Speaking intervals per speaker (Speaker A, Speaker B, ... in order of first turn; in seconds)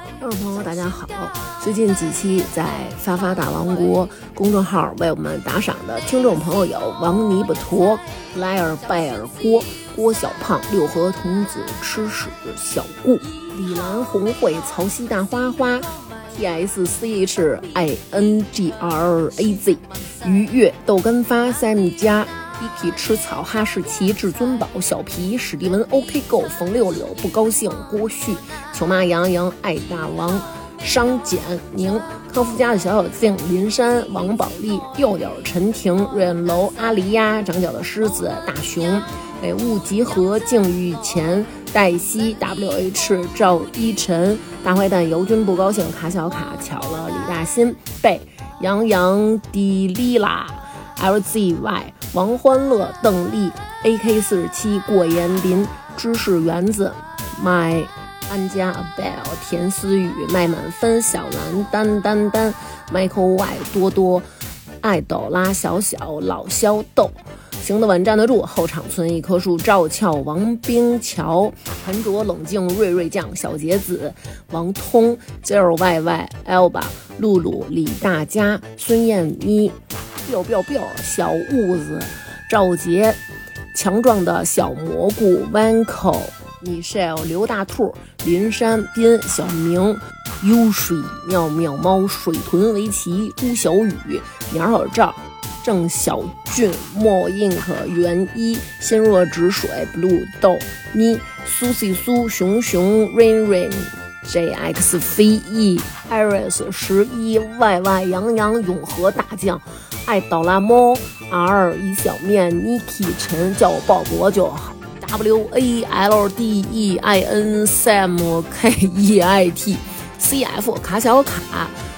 Speaker A: 0.2-64.3, 64.8-83.2, 83.7-121.8